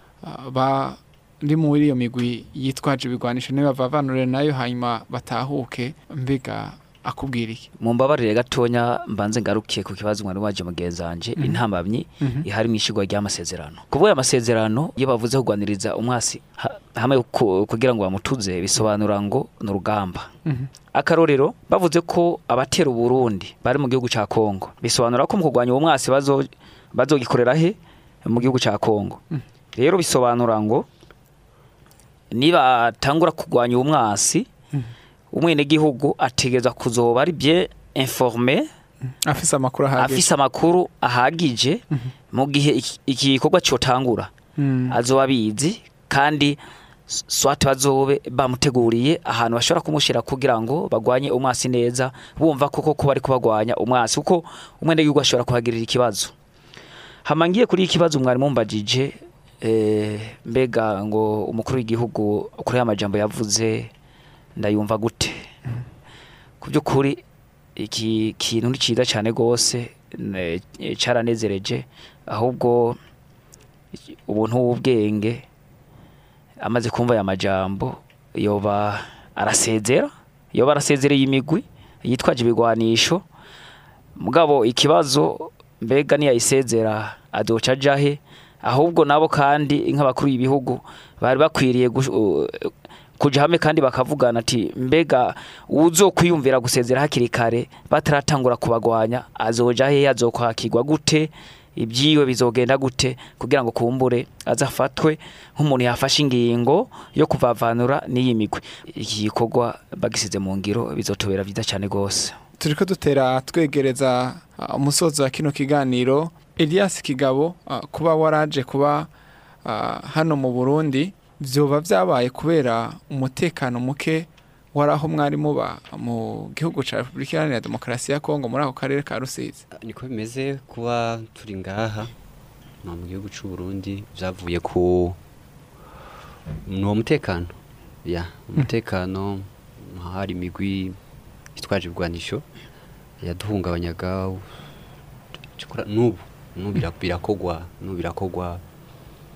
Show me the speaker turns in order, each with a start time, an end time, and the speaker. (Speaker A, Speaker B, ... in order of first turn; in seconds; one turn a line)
Speaker A: 0.2-7.7
Speaker B: 7.8-20.3
Speaker A: 12.2-12.4
Speaker B: 20.9-29.2
Speaker B: 29.7-30.9
Speaker B: 32.3-34.5
Speaker B: 35.3-38.7
Speaker A: 39.2-40.2
Speaker B: 40.0-44.3
Speaker A: 44.6-45.0
Speaker B: 44.9-46.6
Speaker B: 47.1-56.3
Speaker B: 57.2-63.9
Speaker B: 64.6-65.5
Speaker B: 66.6-67.2
Speaker B: 67.8-73.0
Speaker B: 74.1-75.4
Speaker B: 76.6-83.2
Speaker B: 84.2-112.4
Speaker A: 112.6-119.1
Speaker A: 119.6-129.6
Speaker C: 129.7-132.1
Speaker C: 132.8-135.2
Speaker C: 136.7-137.5
Speaker C: 138.0-141.0
Speaker C: 141.5-142.4
Speaker C: 143.2-144.5
Speaker C: 145.6-148.6